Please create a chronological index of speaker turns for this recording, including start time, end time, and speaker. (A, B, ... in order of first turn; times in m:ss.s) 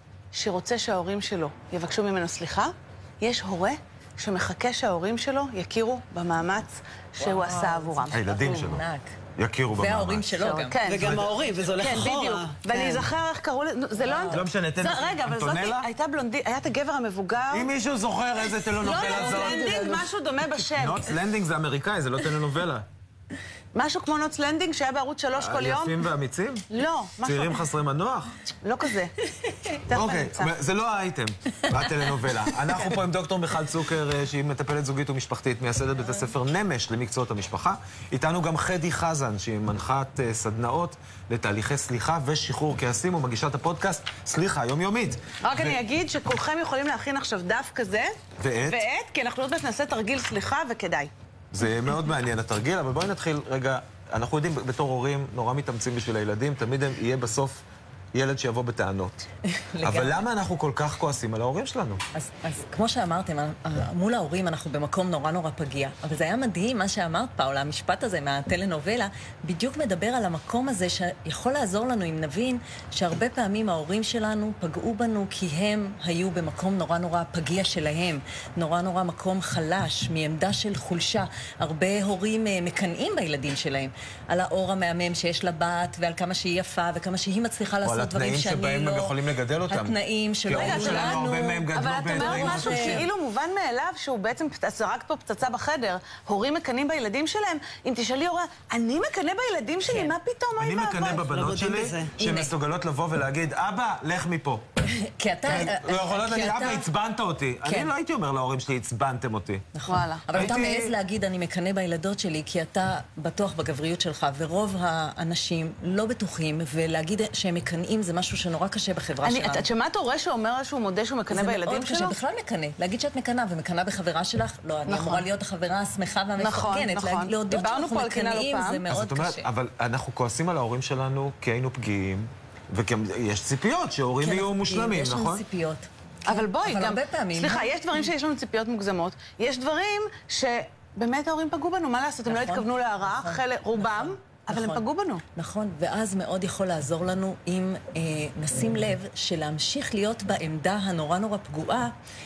0:00.3-0:08.2 A
0:07.2-0:09.2 B
0:08.1-0:08.8 C
0:09.4-0:10.3 C
0:09.8-0:10.8 B
0:10.4-0:11.1 A
0:10.8-0:13.1 D
0:10.9-0:11.4 C
0:11.8-0:17.7 A
0:14.0-0:14.5 B
0:14.3-0:15.9 C
0:17.5-0:20.1 C
0:18.8-0:21.2 A
0:20.7-0:22.9 C
0:23.7-0:26.0 A
0:25.3-0:26.7 C
0:26.7-0:27.7 A
0:27.2-0:28.4 C
0:28.6-0:29.1 A
0:29.9-0:30.5 A
0:29.9-0:45.8 C
0:31.8-0:32.6 B
0:45.4-0:51.1 A
0:48.4-0:48.8 C
0:51.5-0:59.3 C
0:59.6-1:00.3 B
0:59.8-1:02.0 C
1:02.2-1:29.2 B
1:27.8-1:33.1 C
1:29.7-1:33.1 B
1:30.5-1:41.3 A
1:39.8-1:40.1 B
1:40.6-1:44.7 C
1:41.1-1:42.2 D
1:42.2-1:42.5 B
1:44.9-1:46.9 B
1:45.4-1:49.7 C
1:47.6-1:47.9 B
1:49.8-1:59.7 B
1:49.9-1:50.5 A
1:50.3-1:50.9 C
1:59.2-2:02.2 A
2:01.3-2:09.5 B
2:04.9-2:05.2 A
2:06.4-2:08.8 A
2:08.8-2:15.4 C
2:14.2-2:18.0 B
2:16.3-2:25.2 A
2:22.3-2:31.9 B